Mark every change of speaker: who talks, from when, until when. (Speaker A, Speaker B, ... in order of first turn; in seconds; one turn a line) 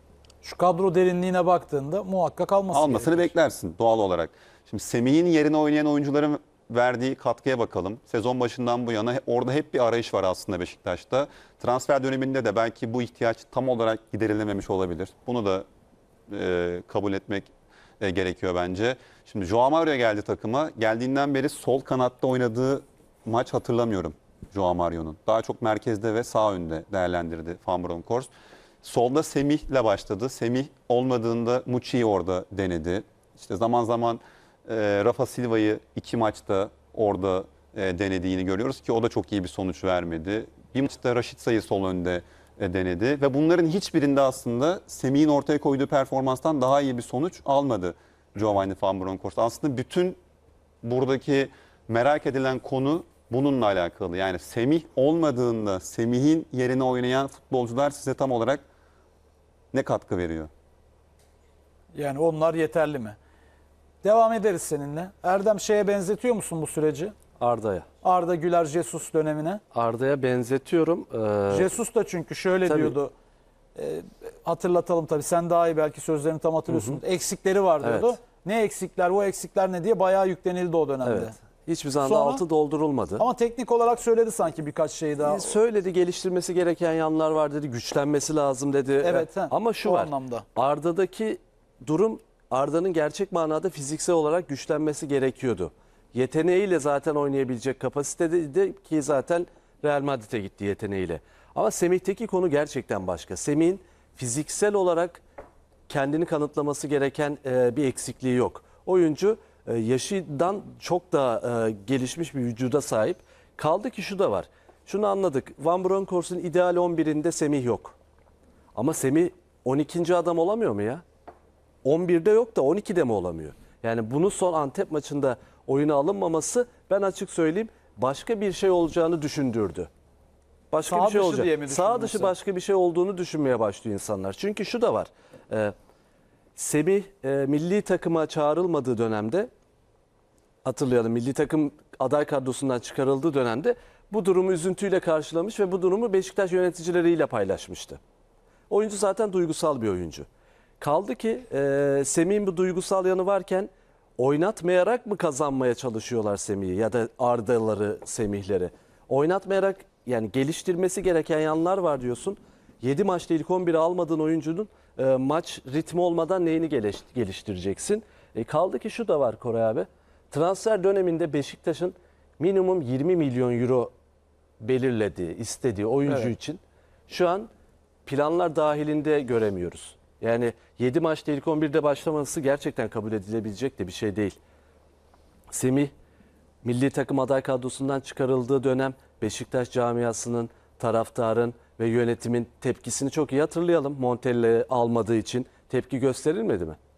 Speaker A: 0.4-3.3
Speaker B: 2.7-15.7
Speaker B: 16.3-28.3
Speaker B: 28.8-50.2
Speaker B: 50.8-58.6
Speaker B: 59.7-60.5
Speaker A: 61.9-63.2
Speaker A: 64.0-67.1
Speaker C: 67.4-67.8
Speaker A: 68.0-69.6
Speaker C: 69.7-71.7
Speaker A: 71.5-73.1
Speaker C: 72.6-73.0
Speaker A: 73.8-81.3
Speaker C: 76.7-77.0
Speaker C: 77.8-78.2
Speaker C: 81.0-83.2
Speaker A: 82.0-82.4
Speaker A: 83.2-85.5
Speaker C: 85.2-105.2
Speaker A: 89.0-90.5
Speaker C: 105.9-118.0
Speaker C: 118.7-121.0
Speaker C: 121.8-129.9
Speaker C: 130.7-135.7
Speaker A: 130.8-132.3
Speaker C: 136.6-139.5
Speaker C: 140.6-148.0
Speaker C: 148.7-150.3
Speaker C: 150.8-173.9
Speaker C: 174.6-177.5
Speaker C: 178.0-184.4
Speaker C: 185.5-185.9
Speaker C: 186.6-196.8